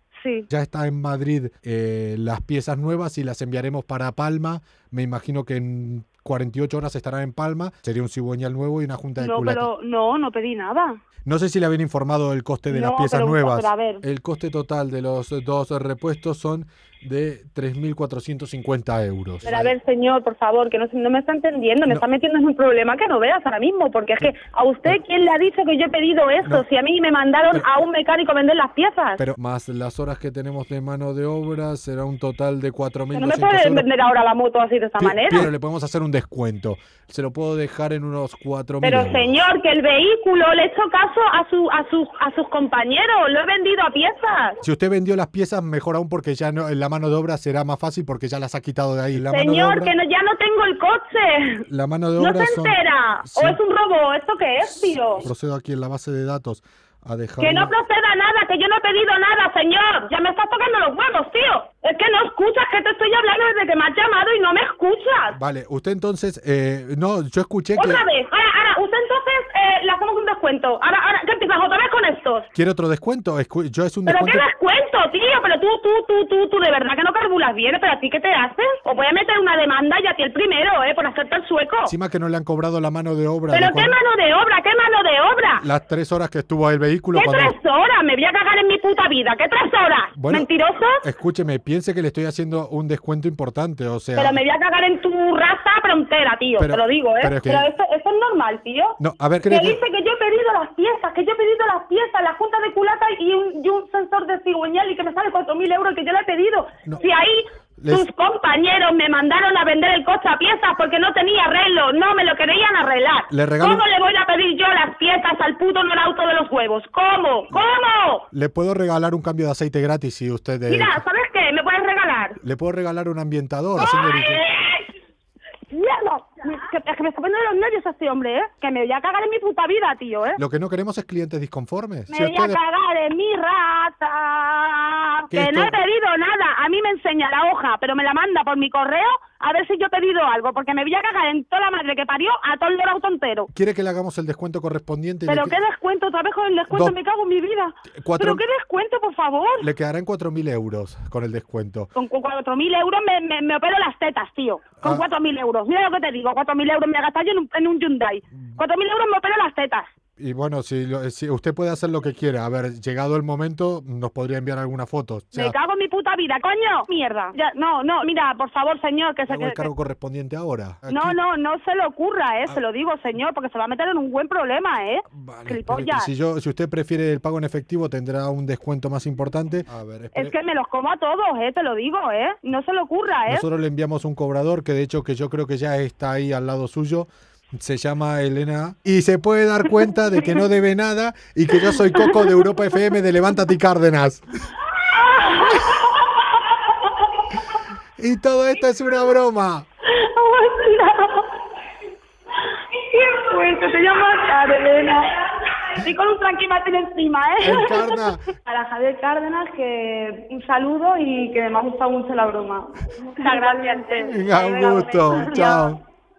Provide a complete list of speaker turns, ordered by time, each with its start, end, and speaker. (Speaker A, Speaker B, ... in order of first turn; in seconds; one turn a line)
Speaker A: 0.2-0.5
Speaker B: 0.5-9.7
Speaker A: 9.2-11.0
Speaker B: 11.3-19.8
Speaker A: 12.7-14.0
Speaker A: 19.4-29.2
Speaker B: 27.5-27.9
Speaker B: 29.2-33.9
Speaker A: 33.1-35.5
Speaker B: 35.0-39.4
Speaker A: 38.8-44.6
Speaker B: 44.6-50.0
Speaker A: 49.3-51.7
Speaker B: 51.7-53.6
Speaker A: 52.2-55.3
Speaker B: 55.2-57.8
Speaker A: 57.4-65.4
Speaker B: 65.3-68.0
Speaker A: 67.8-72.5
Speaker B: 72.5-74.5
Speaker A: 74.1-82.0
Speaker B: 81.9-84.0
Speaker A: 83.5-85.7
Speaker B: 85.6-87.5
Speaker A: 87.2-91.0
Speaker B: 90.2-90.5
Speaker B: 91.0-94.4
Speaker A: 94.2-118.3
Speaker B: 96.6-97.7
Speaker B: 99.0-99.8
Speaker B: 107.8-108.1
Speaker B: 113.3-113.9
Speaker B: 118.3-121.0
Speaker A: 120.7-122.4
Speaker B: 122.4-124.4
Speaker A: 123.8-124.9
Speaker A: 125.7-130.4
Speaker B: 130.4-132.6
Speaker A: 132.1-143.5
Speaker B: 135.3-135.8
Speaker B: 143.5-145.6
Speaker A: 145.3-149.7
Speaker B: 146.7-147.0
Speaker B: 148.0-148.4
Speaker B: 149.6-151.9
Speaker A: 151.9-159.9
Speaker B: 160.2-165.6
Speaker A: 165.3-169.7
Speaker B: 169.3-171.2
Speaker A: 170.9-176.1
Speaker B: 175.1-180.4
Speaker A: 180.1-183.4
Speaker B: 183.3-194.2
Speaker A: 191.6-192.4
Speaker A: 194.8-197.2
Speaker B: 195.4-195.8
Speaker B: 198.0-199.7
Speaker A: 199.9-201.3
Speaker A: 202.4-215.7
Speaker B: 207.4-208.3
Speaker B: 214.0-215.8